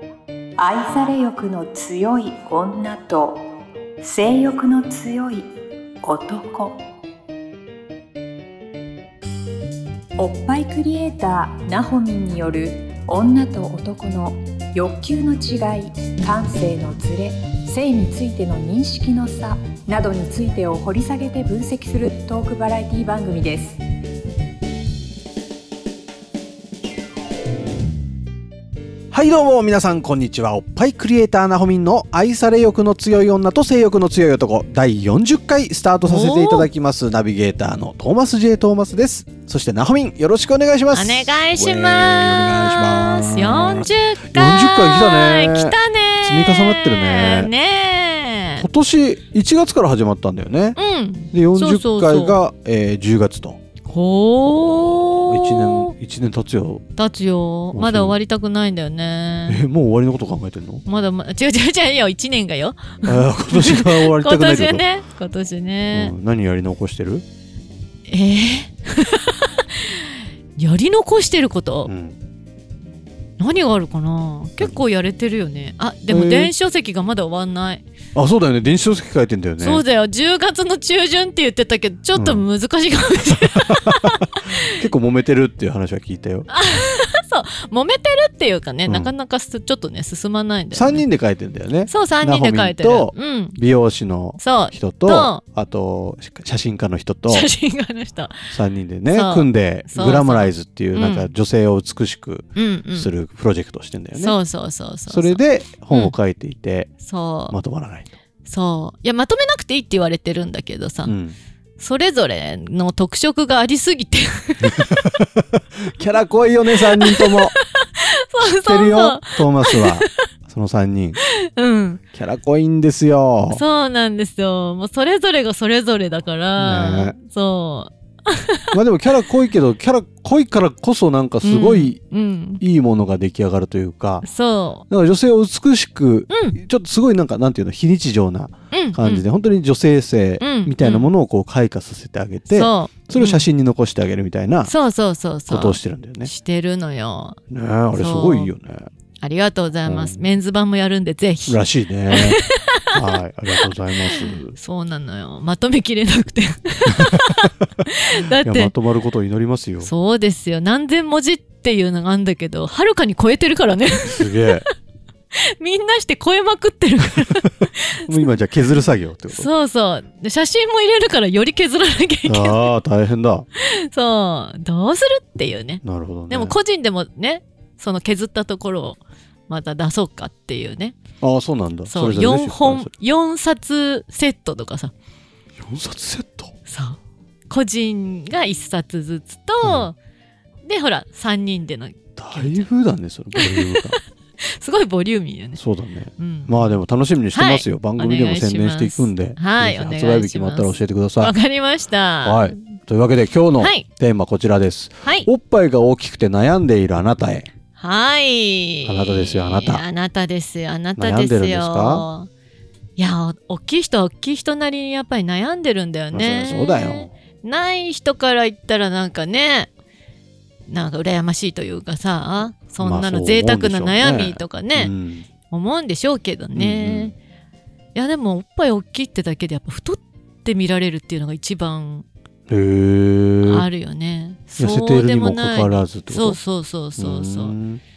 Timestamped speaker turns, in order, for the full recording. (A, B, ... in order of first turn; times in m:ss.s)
0:00.6-0:03.4 A
0:04.0-0:05.5 A
0:06.0-0:06.8 A
0:10.2-0:23.8 A
0:29.1-0:47.5 B
0:36.0-0:36.7 C
0:40.9-0:48.6 C
0:48.6-0:50.8 B
0:50.8-0:52.4 C
0:51.3-0:53.6 B
0:53.8-0:55.9 C
0:54.4-0:56.8 B
0:57.0-0:59.6 C
0:57.7-0:58.2 B
0:59.5-1:00.8 B
1:00.8-1:06.1 C
1:03.0-1:04.8 B
1:05.9-1:07.2 B
1:08.1-1:11.9 C
1:11.8-1:12.2 B
1:13.4-1:17.8 C
1:16.1-1:16.5 B
1:18.1-1:19.8 B
1:19.6-1:24.8 C
1:22.1-1:22.4 B
1:23.2-1:26.5 B
1:26.5-1:31.0 C
1:28.8-1:29.1 B
1:30.7-1:37.5 B
1:31.9-1:33.6 C
1:34.4-1:35.4 C
1:37.3-1:38.5 C
1:38.5-1:44.4 B
1:39.1-1:41.3 C
1:42.6-1:43.1 C
1:44.1-1:46.1 C
1:45.1-1:46.9 B
1:47.0-1:47.6 C
1:47.5-1:48.1 B
1:48.4-1:51.1 C
1:51.0-1:51.4 B
1:51.8-1:55.0 C
1:55.1-1:57.5 B
1:56.8-2:00.2 C
1:58.4-2:01.2 B
2:01.2-2:02.0 C
2:02.1-2:03.6 B
2:03.5-2:08.8 C
2:06.6-2:07.2 B
2:08.7-2:12.0 B
2:11.4-2:12.6 C
2:12.6-2:14.2 B
2:14.2-2:14.8 C
2:14.9-2:24.7 B
2:16.3-2:16.6 C
2:18.7-2:19.2 C
2:20.4-2:21.1 C
2:22.5-2:23.5 C
2:24.6-2:27.4 C
2:25.5-2:26.3 B
2:27.5-2:28.9 B
2:27.9-2:28.5 C
2:29.2-2:31.6 C
2:29.8-2:30.2 B
2:31.5-2:34.5 B
2:32.1-2:33.0 C
2:33.6-2:38.7 C
2:36.9-2:37.3 B
2:38.4-2:39.9 B
2:39.8-2:44.6 C
2:44.0-2:44.6 B
2:45.3-2:48.2 C
2:48.0-2:49.5 B
2:49.3-2:52.7 C
2:52.2-2:53.4 B
2:53.5-3:01.0 C
2:55.8-2:56.6 B
3:01.2-3:02.9 B
3:01.8-3:04.9 C
3:05.6-3:06.5 B
3:06.6-3:07.0 C
3:07.5-3:10.0 C
3:09.6-3:09.9 B
3:10.6-3:12.7 C
3:12.2-3:14.0 B
3:13.3-3:15.6 C
3:15.6-3:21.3 B
3:16.2-3:16.8 C
3:17.3-3:22.8 C
3:22.2-3:27.5 B
3:23.6-3:23.9 C
3:25.0-3:25.3 C
3:27.8-3:32.3 C
3:28.8-3:29.8 B
3:31.0-3:32.1 B
3:33.0-3:39.7 C
3:36.1-3:37.1 B
3:40.7-3:44.9 C
3:42.8-3:45.3 B
3:45.5-3:47.1 C
3:46.5-3:47.1 B
3:47.9-3:52.1 C
3:52.5-3:53.7 B
3:53.4-3:57.6 C
3:54.6-3:56.4 B
3:57.0-3:57.8 B